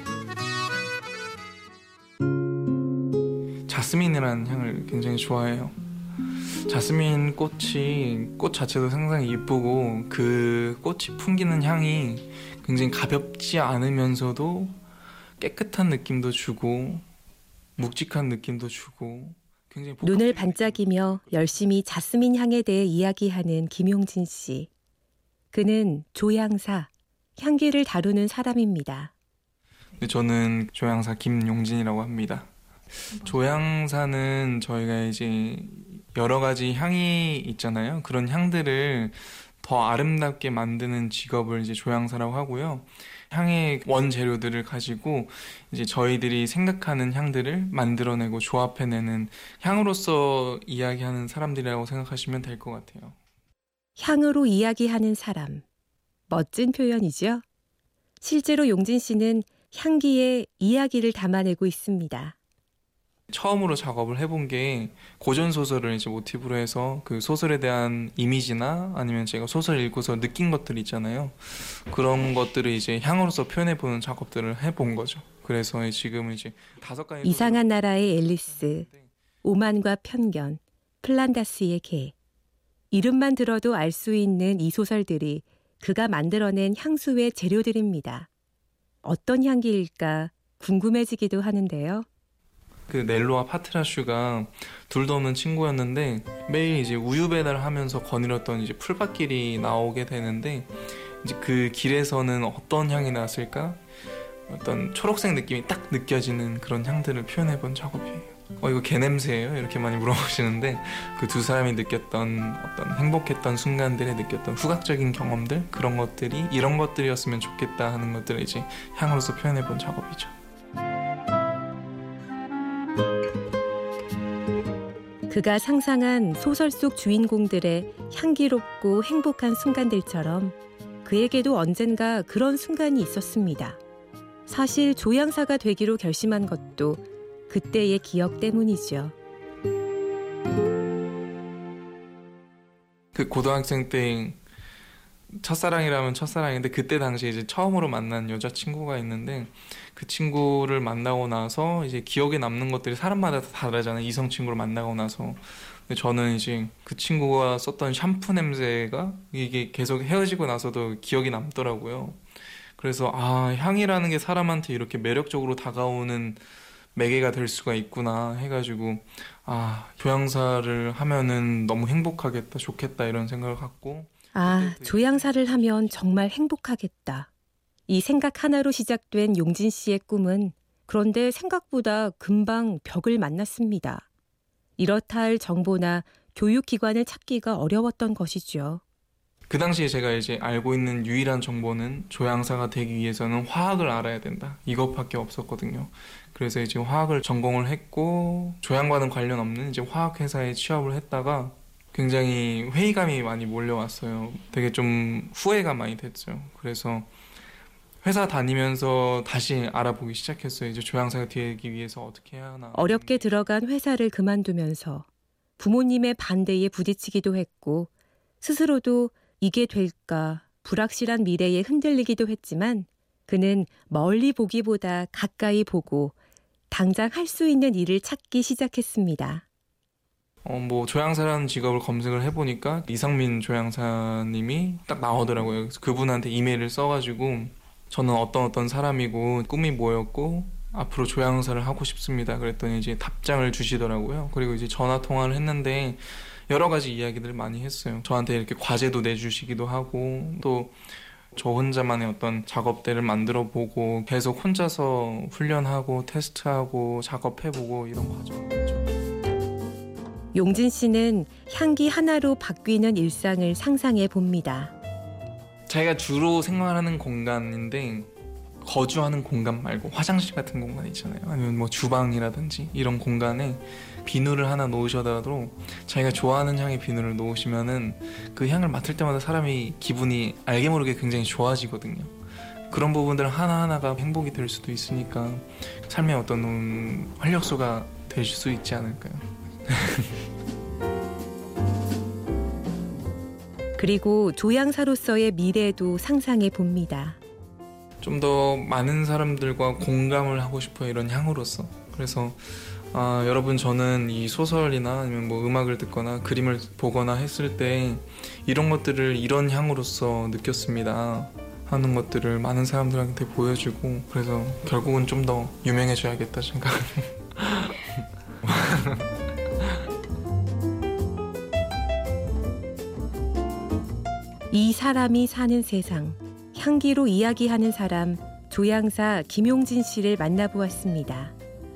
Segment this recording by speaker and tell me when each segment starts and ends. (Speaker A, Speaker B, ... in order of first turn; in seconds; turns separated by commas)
Speaker A: 3.7-5.8, Speaker A: 6.7-14.8, Speaker A: 15.4-17.1, Speaker A: 17.8-21.8, Speaker B: 20.0-24.7, Speaker B: 25.5-29.1, Speaker A: 30.0-32.5, Speaker A: 33.0-53.2, Speaker B: 54.0-55.6, Speaker B: 56.3-57.4, Speaker B: 58.2-62.4, Speaker A: 63.3-79.1, Speaker B: 77.2-78.9, Speaker B: 79.4-82.1, Speaker B: 82.9-88.3, Speaker B: 89.0-92.0, Speaker A: 92.9-103.8, Speaker A: 104.5-120.3, Speaker B: 125.3-133.8, Speaker B: 134.5-139.2, Speaker A: 143.2-144.4, Speaker A: 145.3-162.2, Speaker A: 162.8-166.4, Speaker A: 166.9-176.2, Speaker B: 174.3-177.3, Speaker B: 177.9-184.1, Speaker B: 184.8-188.8, Speaker A: 189.5-207.1, Speaker A: 208.0-213.5, Speaker B: 212.7-215.1, Speaker B: 215.6-217.9, Speaker B: 218.4-226.2, Speaker B: 226.7-229.4, Speaker A: 230.4-250.8, Speaker A: 251.3-258.8, Speaker B: 260.3-264.7, Speaker A: 265.7-268.1, Speaker A: 268.6-282.1, Speaker A: 282.7-290.1, Speaker B: 293.8-297.2, Speaker A: 298.0-319.1, Speaker B: 324.5-331.3